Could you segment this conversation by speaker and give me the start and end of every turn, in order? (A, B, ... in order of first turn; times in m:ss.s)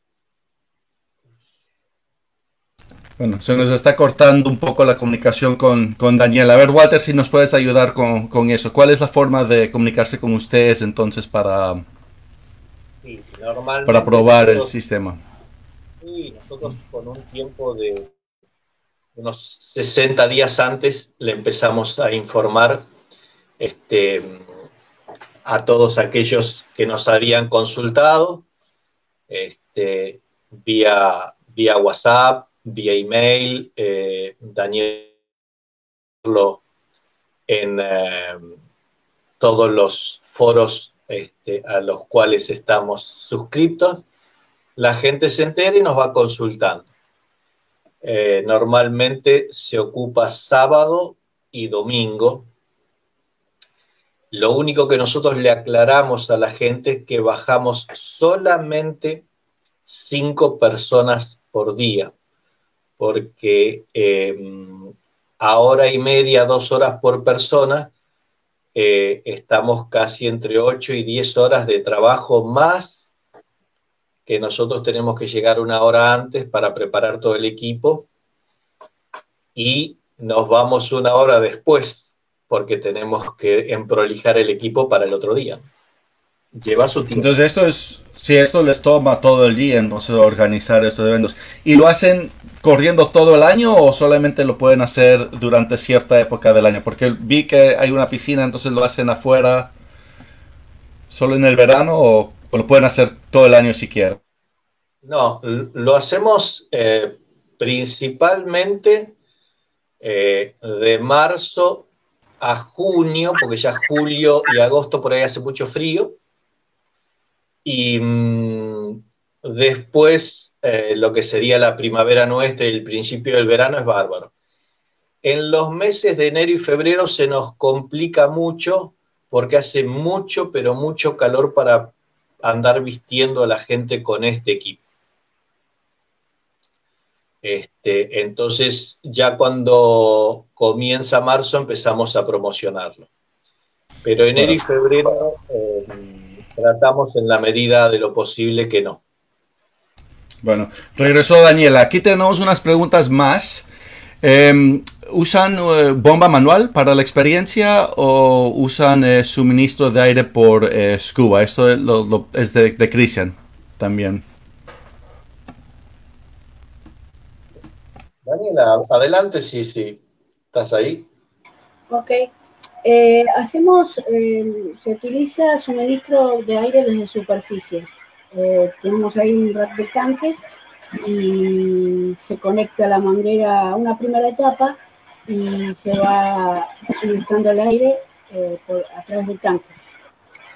0:03.2-0:11.8 A
0:13.0-0:14.7 B
0:13.8-0:15.2 A
0:16.0-0:18.1 B
0:19.2-0:22.8 B
0:23.6-0:24.4 B
0:25.4-0:28.4 B
0:29.3-0:35.1 B
0:36.2-0:36.6 B
0:37.5-0:38.5 B
0:39.4-0:44.0 B
0:44.8-0:46.9 B
0:48.0-0:52.5 B
0:54.3-0:59.2 B
0:59.8-1:02.1 B
1:03.0-1:07.9 B
1:08.7-1:13.1 B
1:14.2-1:18.1 B
1:19.5-1:25.6 B
1:26.5-1:27.3 B
1:27.1-1:39.7 A
1:41.1-1:44.2 A
1:45.0-1:49.1 B
1:50.0-1:51.9 B
1:52.4-1:56.2 B
1:57.6-2:04.3 B
2:05.2-2:14.8 B
2:17.4-2:23.1 B
2:24.0-2:29.0 B
2:30.4-2:33.6 A
2:34.2-2:44.2 A
2:48.2-2:50.0 B
2:50.5-2:51.1 B
2:51.9-2:52.3 C
2:52.8-3:00.5 C
3:01.0-3:09.8 C